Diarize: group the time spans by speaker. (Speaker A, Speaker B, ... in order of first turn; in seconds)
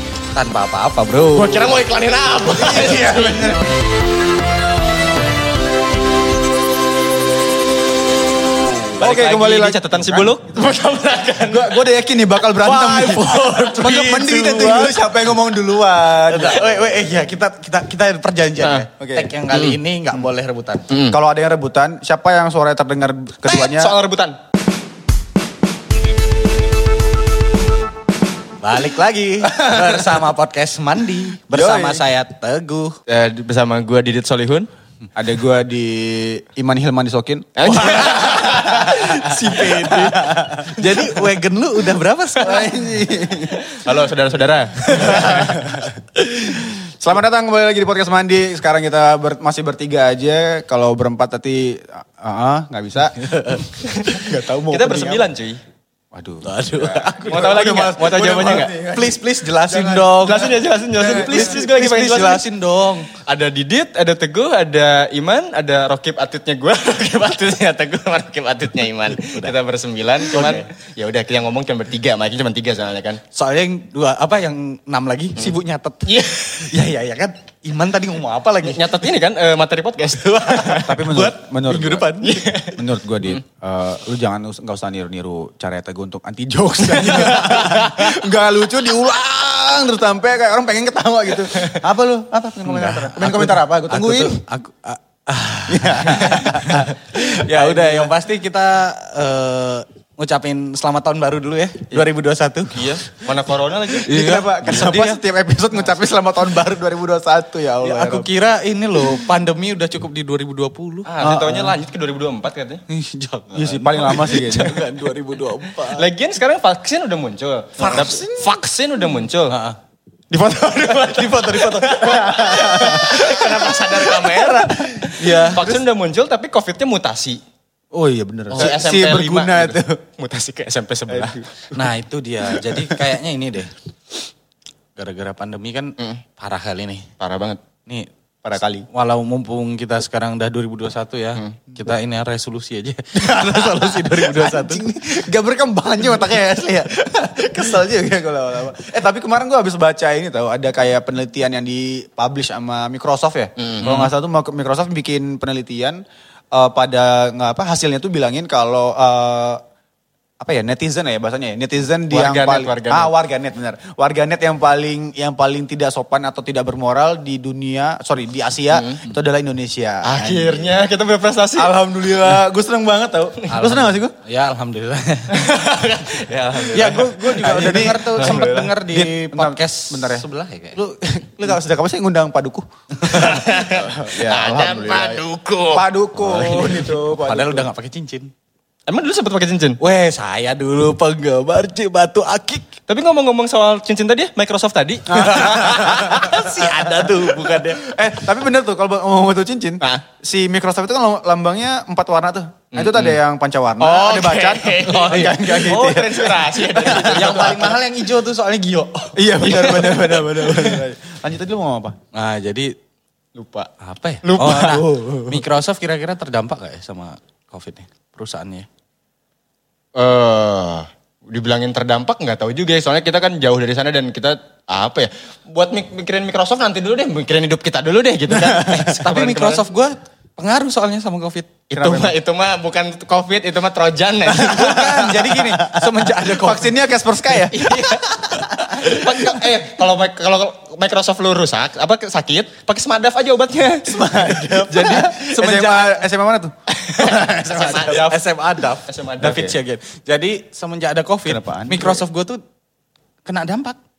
Speaker A: 0.3-1.8, 12.6-14.9, 16.2-20.9, 28.6-33.0, 37.7-42.7, 44.9-45.9, 53.1-53.7, 56.4-57.6, 58.4-60.5, 61.0-63.1, 69.2-69.5, 70.2-70.7, 73.3-79.1, 80.2-82.5, 92.6-103.0, 104.0-105.2, 107.8-111.1, 112.9-116.1, 117.8-118.5, 119.5-119.8, 120.9-123.4, 124.3-125.8, 131.7-133.7, 134.9-137.1, 138.9-144.8, 173.5-175.4, 176.7-180.8, 183.0-183.4, 186.2-188.3, 189.8-192.7, 195.1-198.0, 204.8-205.8, 206.7-210.0, 212.1-212.7, 213.8-218.7, 228.6-231.5, 234.2-239.0, 243.9-245.9, 247.0-252.4, 253.2-253.8
Speaker B: 1.3-3.6, 8.9-11.8, 18.6-18.9, 19.5-19.8, 20.9-21.2, 23.4-24.4, 33.1-34.7, 37.5-40.2, 40.8-41.2, 43.4-45.5, 53.9-54.2, 54.7-55.6, 57.2-58.7, 60.2-62.5, 63.1-73.2, 75.3-76.7, 78.6-81.0, 82.2-83.4, 86.8-88.2, 91.4-91.8, 102.7-104.2, 111.0-112.8, 115.7-119.5, 120.3-127.4, 128.5-131.4, 137.2-137.6, 153.6-154.1, 162.1-163.1, 168.7-169.0, 170.0-171.7, 175.3-178.7, 183.1-185.9, 188.9-189.8, 192.9-195.8, 202.7-203.2, 203.8-207.7, 209.4-210.8, 213.3-213.7, 214.2-214.7, 219.9-229.7, 231.7-234.9, 237.5-244.1, 244.7-245.8, 246.8-248.2, 248.8-249.6
Speaker C: 2.5-3.6, 9.0-10.6, 11.5-16.7, 19.0-19.4, 21.1-23.9, 29.4-30.1, 31.5-32.1, 35.1-38.9, 42.4-43.6, 44.9-45.9, 46.5-55.3, 56.1-61.7, 80.8-82.2, 82.7-94.4, 95.7-98.1, 104.0-108.3, 111.2-111.8, 113.5-115.0, 117.8-118.2, 122.1-123.7, 125.2-125.8, 127.9-130.0, 131.1-131.7, 132.5-133.1, 138.4-138.9, 143.1-159.6, 160.4-170.8, 171.6-174.1, 176.9-187.7, 195.2-207.7, 209.1-211.9, 214.4-215.4, 228.3-228.9, 231.7-232.1, 234.5-237.7, 243.9-246.5, 251.2-252.0